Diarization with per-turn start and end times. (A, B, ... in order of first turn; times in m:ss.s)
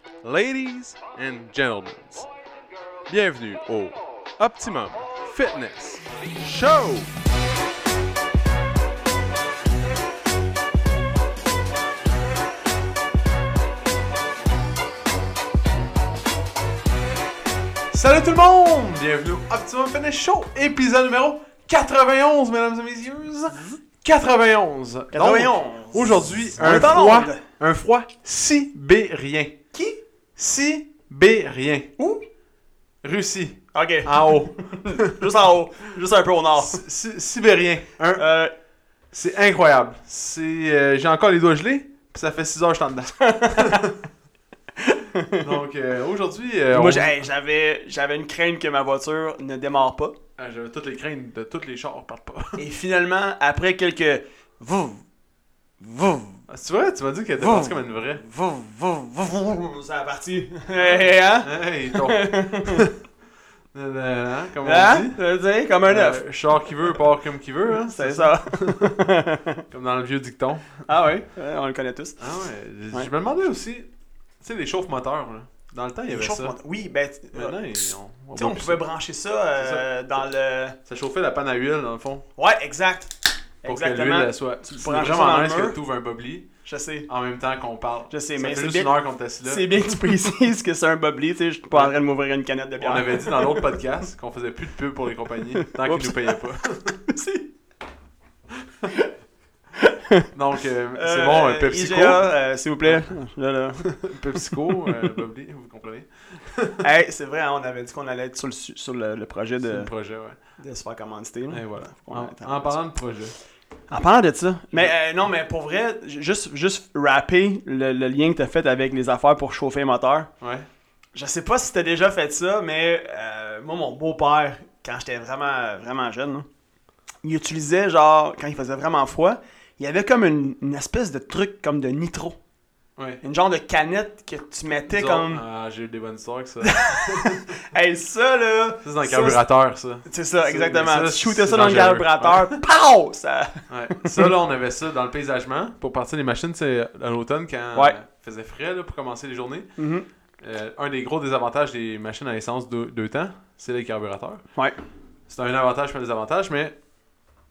0:00.2-0:02.3 A
0:03.1-0:07.2 A
0:17.9-0:29.6 A
0:23.5-0:23.8 B
0:25.1-0:27.4 B
0:29.7-0:30.0 B
0:30.4-0:31.9 A
0:32.0-0:32.2 B
0:33.0-0:35.2 A
0:33.7-0:36.8 B
0:36.6-0:38.2 A
0:38.2-0:38.5 B
0:39.1-0:43.9 A
0:43.2-0:43.9 B
0:44.8-0:45.5 B
0:45.3-0:47.2 A
0:46.7-0:50.2 B
0:50.4-0:52.6 A
0:52.6-0:55.0 B
0:55.8-0:56.4 B
0:56.5-0:58.3 A
0:57.4-1:02.9 B
1:00.8-1:03.0 A
1:03.7-1:05.2 A
1:04.6-1:07.0 B
1:05.8-1:09.1 A
1:07.8-1:09.7 B
1:09.7-1:10.9 A
1:10.9-1:12.3 B
1:12.2-1:13.9 A
1:14.4-1:16.6 A
1:16.1-1:20.8 B
1:17.3-1:18.8 A
1:19.6-1:19.9 A
1:20.8-1:22.3 A
1:22.4-1:25.8 B
1:23.6-1:26.5 A
1:26.6-1:27.1 B
1:27.1-1:29.7 A
1:28.1-1:33.8 B
1:31.7-1:32.0 A
1:32.8-1:37.0 A
1:35.6-1:37.5 B
1:38.9-1:39.1 B
1:39.8-1:40.3 B
1:40.3-1:42.3 A
1:40.9-1:45.1 B
1:42.8-1:43.2 A
1:43.8-1:46.9 A
1:46.8-1:49.9 B
1:49.6-1:50.4 A
1:50.6-1:52.8 B
1:51.5-1:53.4 A
1:53.9-2:00.3 B
2:00.4-2:00.7 A
2:01.2-2:06.5 B
2:07.2-2:12.4 B
2:13.0-2:13.2 A
2:13.2-2:15.4 B
2:14.9-2:17.4 A
2:16.6-2:19.4 B
2:18.8-2:22.6 A
2:20.0-2:24.3 B
2:23.7-2:29.8 A
2:29.8-2:30.1 B
2:30.4-2:34.4 A
2:34.6-2:34.8 B
2:35.3-2:36.8 A